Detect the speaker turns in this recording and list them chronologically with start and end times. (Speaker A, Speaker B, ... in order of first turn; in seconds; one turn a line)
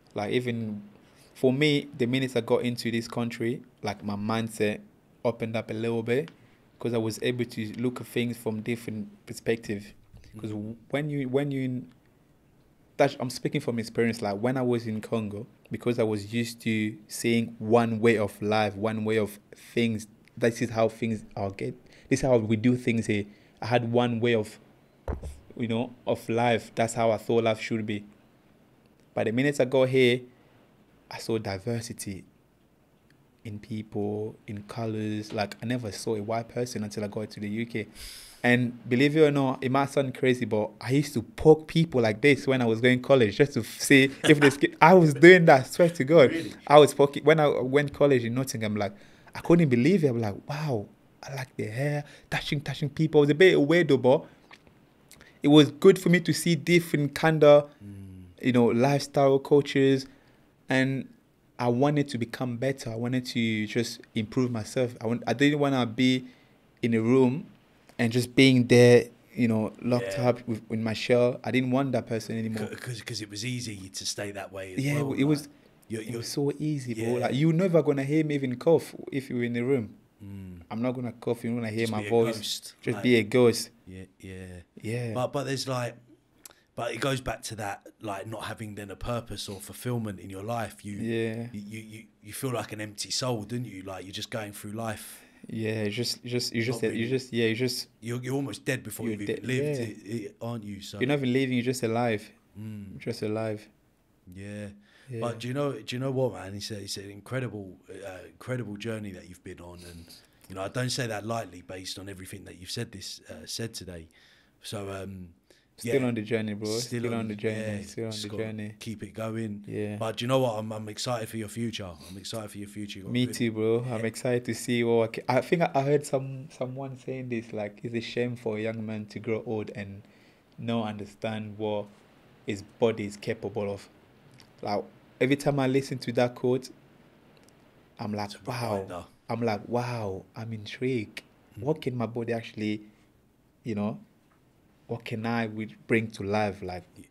Speaker A: 0.1-11.9
Speaker B: 10.3-10.6
Speaker A: 13.0-24.6
Speaker A: 25.5-28.1
Speaker A: 29.1-30.3
Speaker A: 31.1-32.3
Speaker A: 33.4-37.9
Speaker A: 38.4-54.3
Speaker B: 46.1-46.6
Speaker A: 55.4-57.7
Speaker B: 57.8-58.3
Speaker A: 58.4-60.1
Speaker A: 60.7-66.3
Speaker A: 66.8-72.7
Speaker B: 69.9-70.3
Speaker B: 72.5-76.3
Speaker A: 74.8-75.5
Speaker A: 76.1-80.0
Speaker B: 76.9-77.4
Speaker B: 80.2-80.7
Speaker A: 80.7-83.7
Speaker B: 81.8-83.2
Speaker B: 83.9-86.0
Speaker A: 84.8-85.2
Speaker B: 86.8-95.2
Speaker A: 91.0-91.5
Speaker A: 95.5-97.9
Speaker B: 96.7-97.2
Speaker B: 98.0-101.1
Speaker A: 99.0-99.9
Speaker A: 101.0-102.3
Speaker B: 102.5-103.0
Speaker A: 102.9-103.7
Speaker B: 104.3-114.1
Speaker A: 105.1-105.4
Speaker B: 114.6-116.1
Speaker A: 115.8-118.8
Speaker B: 116.7-124.1
Speaker A: 119.7-120.0
Speaker A: 123.1-130.1
Speaker A: 130.6-131.9
Speaker A: 132.5-133.9
Speaker A: 134.6-136.7
Speaker A: 138.0-142.9
Speaker B: 138.3-139.1
Speaker A: 143.6-144.0
Speaker A: 144.9-146.9